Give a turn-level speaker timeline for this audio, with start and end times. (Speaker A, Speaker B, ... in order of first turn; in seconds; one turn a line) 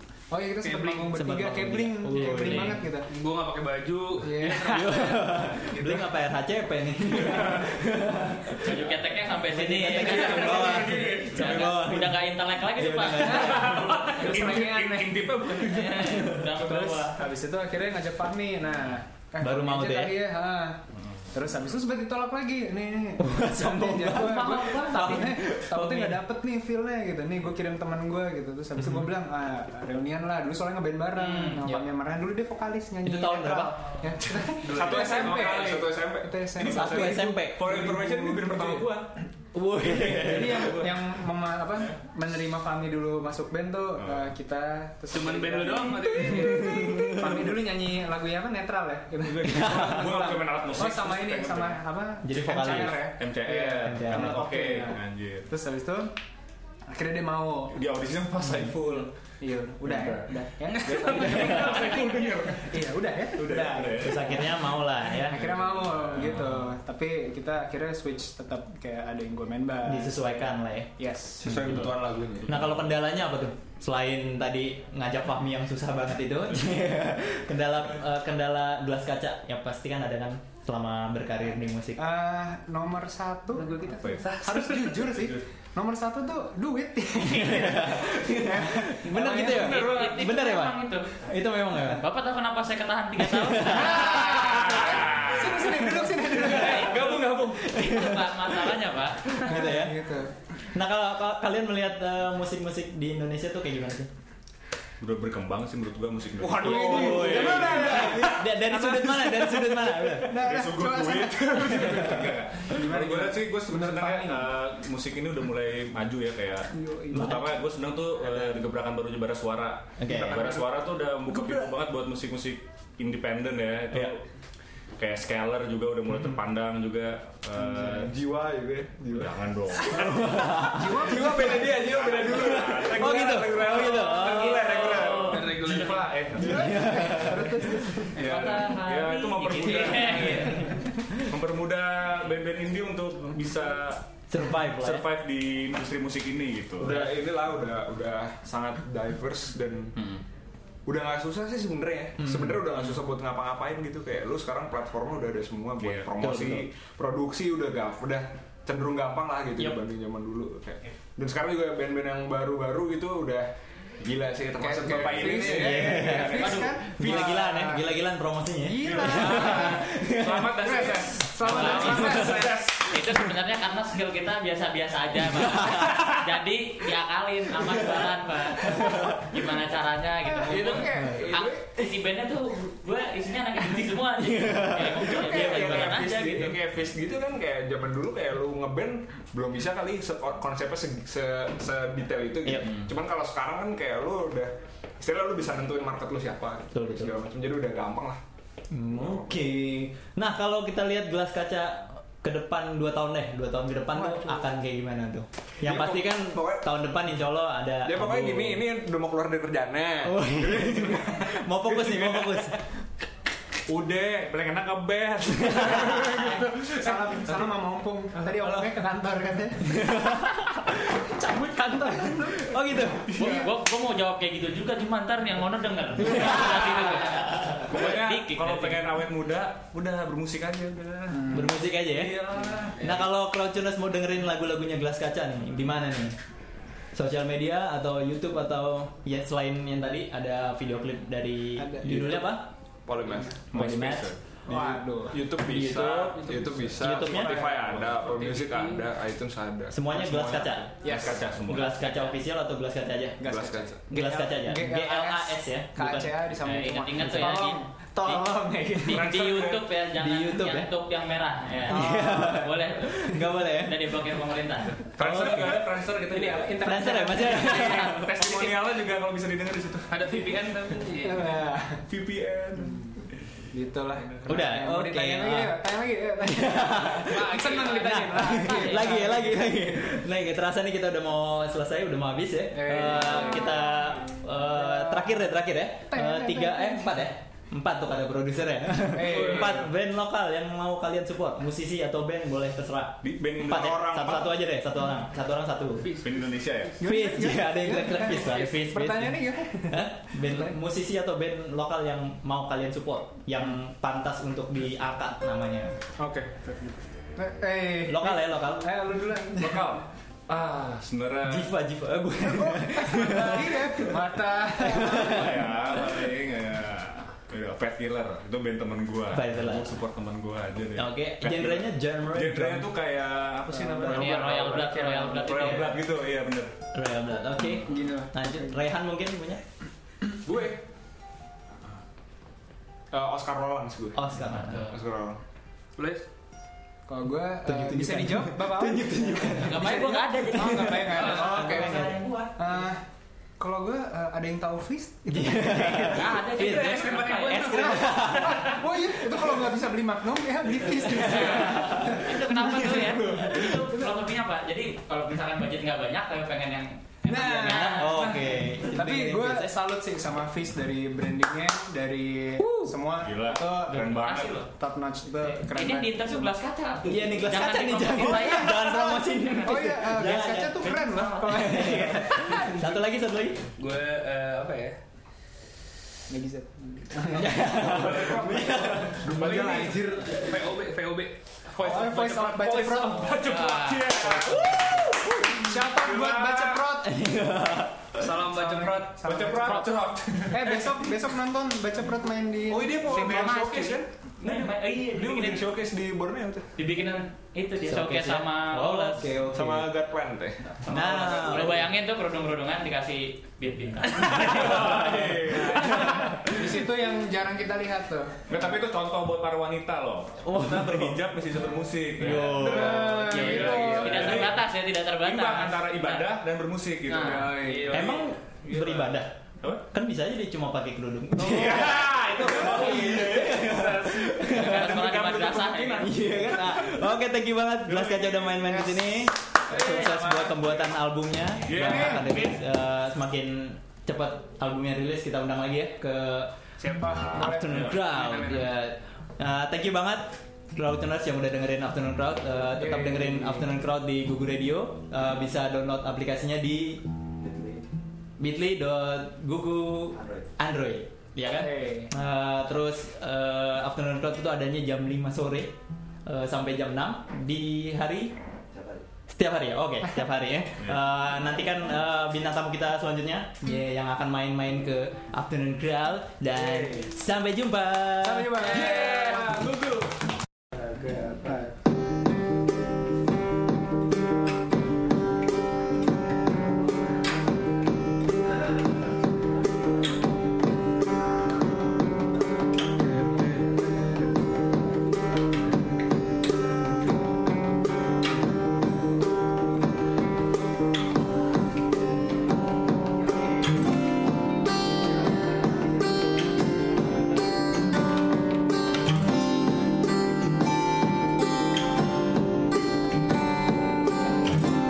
Speaker A: 0.3-3.1
Speaker B: 0.6-1.1
Speaker C: 1.1-2.9
Speaker B: 3.1-6.0
Speaker A: 4.2-5.1
Speaker C: 4.6-8.8
Speaker D: 8.6-14.6
Speaker C: 9.4-14.0
Speaker B: 10.0-11.2
Speaker A: 13.3-15.3
Speaker E: 13.3-16.2
Speaker D: 15.5-17.2
Speaker A: 16.5-20.8
Speaker C: 19.4-20.2
Speaker A: 21.3-38.9
Speaker C: 23.2-26.3
Speaker D: 24.1-25.4
Speaker C: 28.8-29.1
Speaker D: 31.2-31.6
Speaker C: 33.0-33.8
Speaker B: 34.6-35.9
Speaker F: 34.7-39.1
Speaker C: 36.6-37.6
Speaker C: 39.5-40.9
Speaker E: 40.0-40.9
Speaker A: 40.0-56.1
Speaker E: 44.0-44.3
Speaker B: 45.1-47.1
Speaker C: 46.3-47.5
Speaker E: 49.2-51.8
Speaker C: 49.4-50.1
Speaker C: 52.2-53.1
Speaker E: 52.6-55.5
Speaker C: 53.8-54.5
Speaker A: 56.9-57.8
Speaker E: 57.7-59.1
Speaker A: 58.7-64.7
Speaker E: 59.9-60.3
Speaker B: 60.7-62.2
Speaker E: 60.9-64.6
Speaker C: 64.0-65.4
Speaker E: 65.2-66.7
Speaker A: 65.2-70.3
Speaker C: 69.8-70.9
Speaker A: 71.0-71.8
Speaker F: 71.4-72.5
Speaker C: 72.5-82.0
Speaker A: 82.0-90.0
Speaker B: 83.6-85.0
Speaker E: 84.0-84.4
Speaker E: 85.1-85.4
Speaker C: 87.2-92.0
Speaker D: 89.2-91.1
Speaker D: 91.8-94.7
Speaker C: 93.2-94.2
Speaker A: 93.7-97.3
Speaker E: 94.4-95.8
Speaker D: 96.4-99.5
Speaker E: 96.8-97.4
Speaker C: 97.6-98.8
Speaker C: 99.3-100.0
Speaker A: 99.5-100.3
Speaker C: 100.7-104.1
Speaker E: 105.0-108.3
Speaker A: 106.4-114.5
Speaker F: 106.5-107.6
Speaker C: 106.6-110.4
Speaker E: 110.3-124.2
Speaker A: 116.7-117.5
Speaker C: 117.1-117.5
Speaker C: 120.0-120.6
Speaker A: 121.3-121.7
Speaker E: 125.0-128.1
Speaker F: 127.8-129.8
Speaker E: 129.1-130.3
Speaker C: 129.9-131.4
Speaker A: 130.6-131.9
Speaker F: 131.0-135.4
Speaker E: 131.6-134.0
Speaker C: 132.3-134.7
Speaker D: 133.9-135.6
Speaker E: 134.8-137.5
Speaker B: 135.2-136.2
Speaker A: 136.4-138.2
Speaker C: 136.4-137.9
Speaker E: 138.2-147.1
Speaker D: 138.2-140.7
Speaker C: 144.3-145.1
Speaker F: 146.8-150.0
Speaker F: 150.9-163.5
Speaker C: 152.2-152.7
Speaker E: 155.8-156.6
Speaker C: 156.2-156.7
Speaker F: 164.0-165.8
Speaker A: 164.6-167.9
Speaker E: 164.8-167.3
Speaker C: 165.4-170.6
Speaker A: 168.6-169.9
Speaker E: 168.8-173.0
Speaker A: 170.4-172.8
Speaker D: 171.4-186.6
Speaker C: 171.5-172.4
Speaker C: 175.3-176.1
Speaker C: 177.6-179.4
Speaker A: 180.3-181.1
Speaker F: 180.4-181.7
Speaker C: 184.2-186.0
Speaker F: 185.0-198.2
Speaker C: 192.4-192.8
Speaker C: 196.7-197.1
Speaker C: 198.7-208.6
Speaker F: 198.9-199.3
Speaker F: 205.6-206.6
Speaker F: 207.8-211.2
Speaker C: 210.0-212.6
Speaker E: 211.8-212.4
Speaker E: 213.7-217.5
Speaker C: 215.4-216.2
Speaker A: 216.7-219.9
Speaker C: 219.7-223.1
Speaker A: 221.2-222.4
Speaker E: 223.1-223.5
Speaker D: 223.2-228.8
Speaker C: 226.0-226.7
Speaker E: 227.7-231.4
Speaker A: 231.1-231.6
Speaker C: 231.3-232.2
Speaker E: 231.9-232.8
Speaker B: 232.3-233.0
Speaker C: 232.8-236.2
Speaker C: 236.9-242.5
Speaker A: 241.6-242.4
Speaker F: 242.9-244.0
Speaker C: 243.5-244.1
Speaker E: 243.5-244.8
Speaker A: 244.5-245.2
Speaker F: 245.1-251.2
Speaker C: 245.5-245.9
Speaker E: 245.6-246.1
Speaker B: 246.2-246.6
Speaker C: 246.8-247.5
Speaker E: 247.0-248.2
Speaker B: 248.1-248.8
Speaker C: 249.7-250.8
Speaker A: 250.8-251.2
Speaker E: 250.8-251.8
Speaker C: 251.5-253.2
Speaker A: 253.2-259.2
Speaker F: 253.2-253.8
Speaker C: 253.9-256.2
Speaker D: 256.4-258.1
Speaker C: 257.0-257.4
Speaker D: 258.9-264.8
Speaker E: 258.9-259.6
Speaker C: 259.9-260.7
Speaker C: 261.6-264.0
Speaker A: 261.7-262.4
Speaker E: 265.0-270.3
Speaker C: 265.0-265.6
Speaker A: 266.0-267.9
Speaker C: 266.6-268.1
Speaker B: 269.9-271.3
Speaker A: 271.0-271.8
Speaker E: 271.9-272.9
Speaker A: 272.6-279.6
Speaker C: 274.3-275.6
Speaker C: 276.2-295.9
Speaker B: 277.1-278.8
Speaker A: 282.5-283.7
Speaker A: 284.5-285.3
Speaker A: 285.9-287.0
Speaker A: 288.9-289.7
Speaker B: 289.0-289.5
Speaker E: 293.0-294.1
Speaker F: 293.4-294.2
Speaker B: 295.8-296.4
Speaker E: 296.0-296.8
Speaker A: 296.8-300.5
Speaker C: 296.8-305.8
Speaker A: 306.0-309.8
Speaker C: 307.9-308.8
Speaker E: 309.4-311.5
Speaker C: 311.2-313.8
Speaker A: 312.2-315.8
Speaker E: 313.1-313.8
Speaker C: 314.6-315.5
Speaker E: 314.8-326.5
Speaker C: 319.1-319.7
Speaker C: 320.8-322.7
Speaker A: 323.5-324.2
Speaker D: 323.9-325.8
Speaker A: 324.8-325.4
Speaker C: 326.7-329.4
Speaker A: 327.6-328.6
Speaker F: 330.2-330.6
Speaker F: 332.9-334.0
Speaker C: 333.9-334.6
Speaker D: 334.3-334.7
Speaker F: 334.7-335.2
Speaker B: 335.8-336.1
Speaker A: 336.9-342.8
Speaker C: 337.4-342.3
Speaker D: 339.3-342.3
Speaker A: 343.4-346.2
Speaker C: 345.1-348.6
Speaker D: 345.9-348.1
Speaker B: 346.2-348.0
Speaker A: 347.6-353.9
Speaker C: 351.0-353.2
Speaker D: 351.1-358.2
Speaker A: 357.1-363.8
Speaker C: 357.4-359.5
Speaker C: 362.4-362.8
Speaker E: 363.0-364.4
Speaker D: 363.7-364.5
Speaker A: 364.5-366.3
Speaker D: 365.2-371.8
Speaker C: 366.9-373.4
Speaker A: 368.0-372.7
Speaker B: 373.6-374.8
Speaker A: 376.1-377.9
Speaker C: 377.0-379.1
Speaker F: 377.6-378.9
Speaker A: 379.0-380.3
Speaker B: 379.1-383.2
Speaker E: 379.2-379.7
Speaker A: 381.6-383.2
Speaker E: 383.0-384.6
Speaker D: 383.2-384.0
Speaker A: 384.1-387.0
Speaker C: 384.2-385.6
Speaker E: 385.8-386.6
Speaker C: 386.8-388.0
Speaker B: 388.0-389.1
Speaker A: 388.3-393.6
Speaker E: 389.0-390.9
Speaker F: 392.5-396.5
Speaker D: 392.9-395.5
Speaker D: 396.6-399.0
Speaker C: 397.7-399.7
Speaker F: 399.1-401.3
Speaker D: 400.6-404.6
Speaker C: 400.7-401.6
Speaker C: 404.0-406.2
Speaker E: 404.0-405.6
Speaker A: 405.6-408.2
Speaker E: 408.3-419.6
Speaker C: 410.2-411.0
Speaker C: 412.0-413.1
Speaker A: 412.2-414.3
Speaker D: 413.1-416.1
Speaker B: 413.2-414.2
Speaker D: 416.9-417.3
Speaker A: 417.0-417.7
Speaker B: 417.4-418.1
Speaker C: 417.7-419.1
Speaker C: 419.7-424.8
Speaker E: 421.2-426.8
Speaker B: 422.7-423.1
Speaker D: 424.3-425.9
Speaker C: 425.8-436.3
Speaker E: 427.7-428.6
Speaker B: 429.5-430.7
Speaker E: 431.4-432.3
Speaker A: 431.6-432.1
Speaker B: 436.6-438.5
Speaker A: 436.9-437.4
Speaker C: 437.2-446.8
Speaker E: 437.5-437.8
Speaker A: 442.6-443.5
Speaker C: 448.2-455.5
Speaker A: 451.3-451.9
Speaker C: 456.1-458.1
Speaker C: 459.1-468.6
Speaker A: 466.4-466.8
Speaker A: 468.0-469.4
Speaker B: 468.4-469.8